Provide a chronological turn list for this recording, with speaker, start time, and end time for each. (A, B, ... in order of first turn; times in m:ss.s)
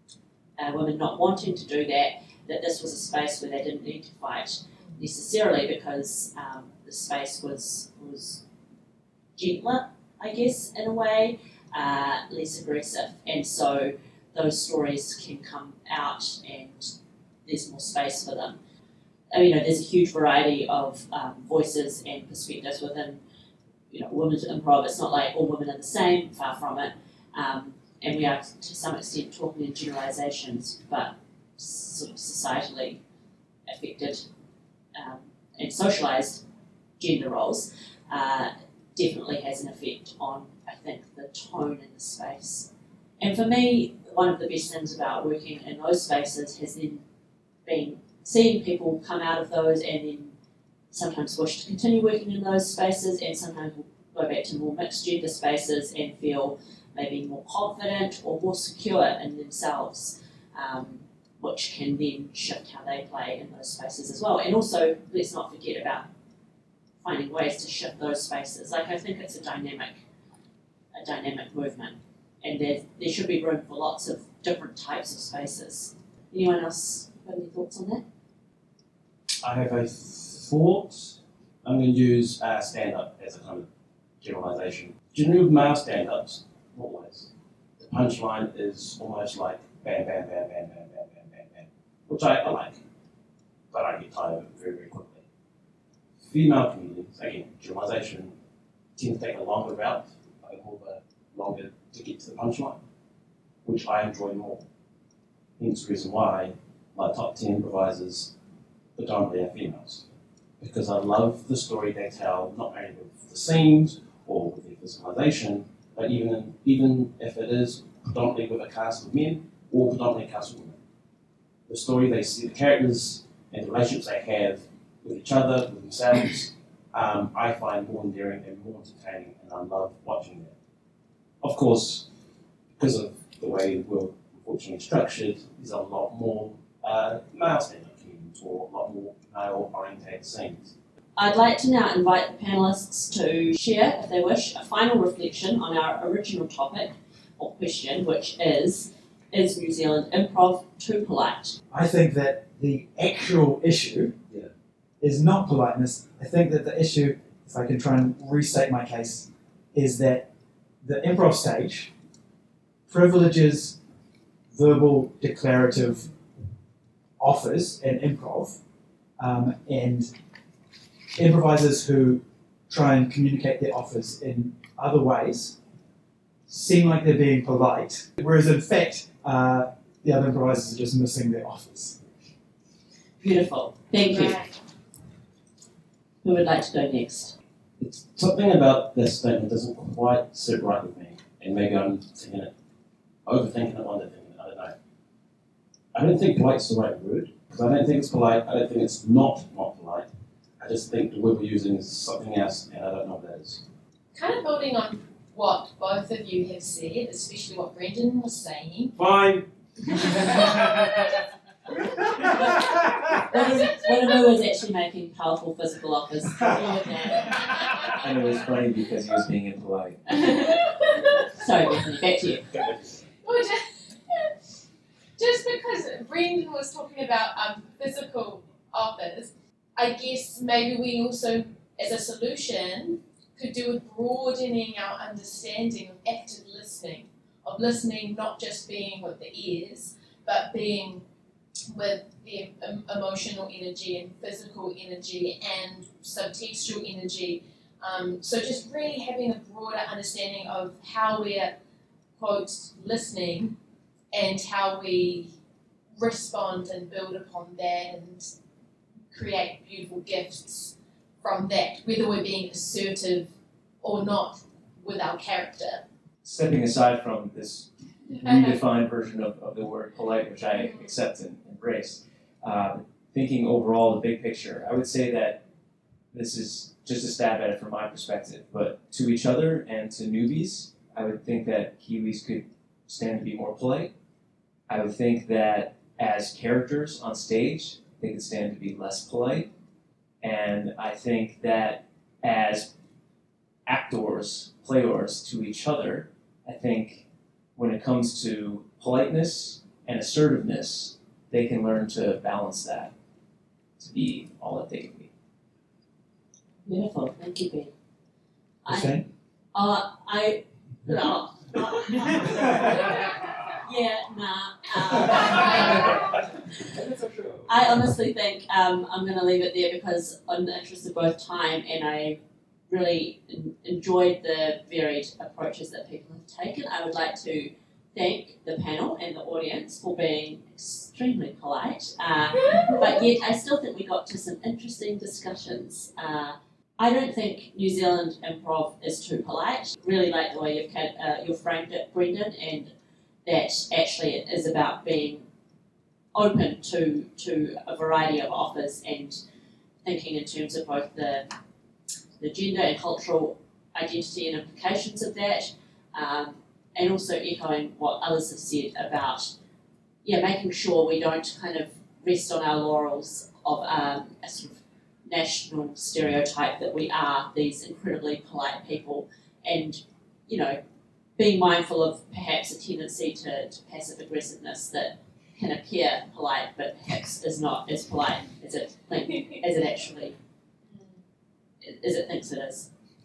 0:00.6-0:08.4 A
0:09.4-0:16.9 A
0:17.4-0:18.6 A
0:19.3-0:23.2 A
0:23.9-0:33.0 A
0:33.6-0:34.2 A
0:34.9-0:36.4 A
0:37.0-0:42.7 A
0:43.2-0:47.0 A
0:47.6-0:50.3 A
0:50.9-1:06.1 A
1:07.0-1:10.0 A
1:10.9-1:18.0 A
1:19.4-1:23.7 B
1:24.2-1:32.8 B
1:33.7-1:35.2 B
1:36.2-1:38.3 B
1:39.0-1:42.8 B
1:43.6-1:44.6 B
1:45.6-1:48.3 B
1:49.0-1:50.0 B
1:50.6-2:00.8 B
2:01.7-2:10.5 B
2:11.4-2:12.0 B
2:12.8-2:20.7 B
2:21.2-2:31.6 A
2:31.7-2:34.2 C
2:35.0-2:40.3 C
2:40.8-2:41.9 C
2:42.9-2:43.8 C
2:44.5-2:46.1 C
2:47.2-2:48.6 C
2:49.2-2:50.1 C
2:51.2-2:55.6 C
2:56.5-3:02.0 C
3:03.2-3:04.4 A
3:04.1-3:04.5 D
3:06.2-3:07.3 A
3:07.8-3:12.5 B
3:13.2-3:14.7 B
3:15.9-3:20.1 B
3:20.6-3:23.6 B
3:24.1-3:28.9 D
3:29.0-3:31.0 B
3:30.0-3:31.2 D
3:32.1-3:32.6 D
3:32.2-3:37.5 A
3:33.3-3:33.9 D
3:37.4-3:38.4 D
3:37.9-3:40.0 E
3:40.1-3:40.6 A
3:40.5-3:41.4 D
3:41.3-3:42.5 A
3:42.6-3:42.9 B
3:43.2-3:44.4 D
3:45.2-4:01.0 D
4:01.7-4:11.5 D
4:12.2-4:13.5 D
4:14.1-4:15.3 D
4:16.0-4:18.3 D
4:19.1-4:23.3 D
4:23.8-4:25.8 D
4:26.2-4:35.4 E
4:28.1-4:28.5 D
4:30.5-4:30.9 D
4:36.1-4:43.9 E
4:44.7-4:49.5 E
4:50.2-4:52.7 E
4:53.7-4:57.0 E
4:57.6-5:02.9 E
5:03.8-5:05.1 E
5:06.6-5:07.7 A
5:08.6-5:09.0 A
5:08.6-5:09.0 C
5:09.5-5:16.0 A
5:12.7-5:13.0 D
5:15.2-5:16.0 D
5:17.4-5:22.2 A
5:22.7-5:42.7 A
5:32.4-5:32.8 D
5:43.2-5:45.2 A
5:46.1-5:49.2 A
5:49.8-5:51.2 A
5:52.2-5:59.3 A
6:00.0-6:10.6 A
6:11.2-6:20.1 A
6:20.7-6:21.0 D
6:21.6-6:22.7 A